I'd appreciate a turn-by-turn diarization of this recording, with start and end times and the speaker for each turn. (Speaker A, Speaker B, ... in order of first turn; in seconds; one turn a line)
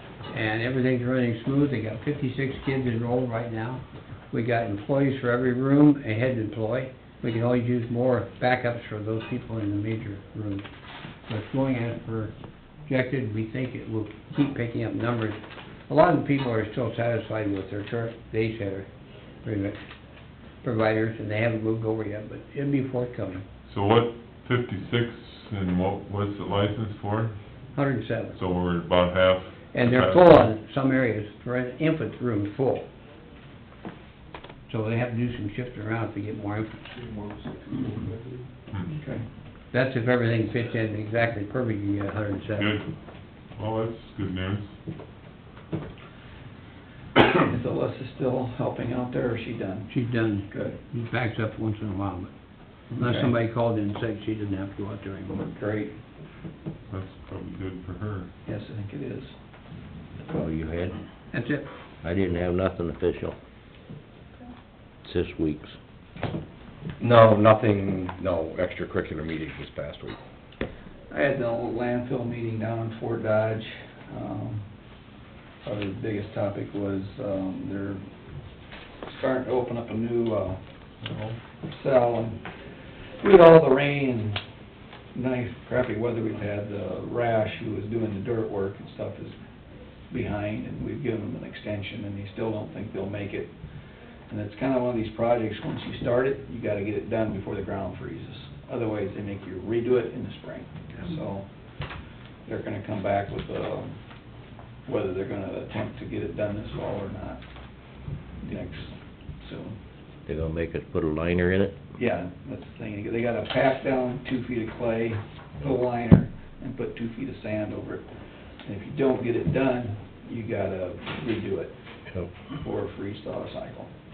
Speaker A: 0.3-10.7
Speaker A: 11.3-12.3
Speaker A: 12.8-18.9
Speaker A: 19.4-19.8
Speaker A: 20.6-23.4
Speaker B: 23.7-27.4
Speaker A: 27.7-28.4
Speaker B: 28.3-30.5
Speaker A: 29.7-32.9
Speaker A: 34.7-36.9
Speaker C: 37.1-39.2
Speaker A: 39.7-42.8
Speaker B: 42.6-42.9
Speaker B: 43.5-44.7
Speaker C: 47.1-50.0
Speaker A: 49.9-52.3
Speaker C: 50.5-50.8
Speaker C: 52.9-53.3
Speaker A: 52.9-55.4
Speaker C: 55.4-55.9
Speaker B: 56.9-58.3
Speaker C: 58.5-59.3
Speaker D: 60.2-61.0
Speaker A: 61.3-61.6
Speaker D: 62.0-63.4
Speaker D: 65.0-65.8
Speaker E: 67.0-70.2
Speaker C: 71.1-74.6
Speaker C: 75.6-78.0
Speaker C: 79.0-80.6
Speaker B: 81.0-81.4
Speaker C: 81.6-82.5
Speaker C: 83.2-84.4
Speaker C: 85.1-89.3
Speaker C: 90.1-93.5
Speaker C: 94.3-101.4
Speaker C: 102.5-104.0
Speaker C: 104.8-107.4
Speaker C: 108.4-109.8
Speaker D: 110.2-111.8
Speaker C: 111.9-118.1
Speaker C: 118.6-121.7
Speaker C: 122.5-123.9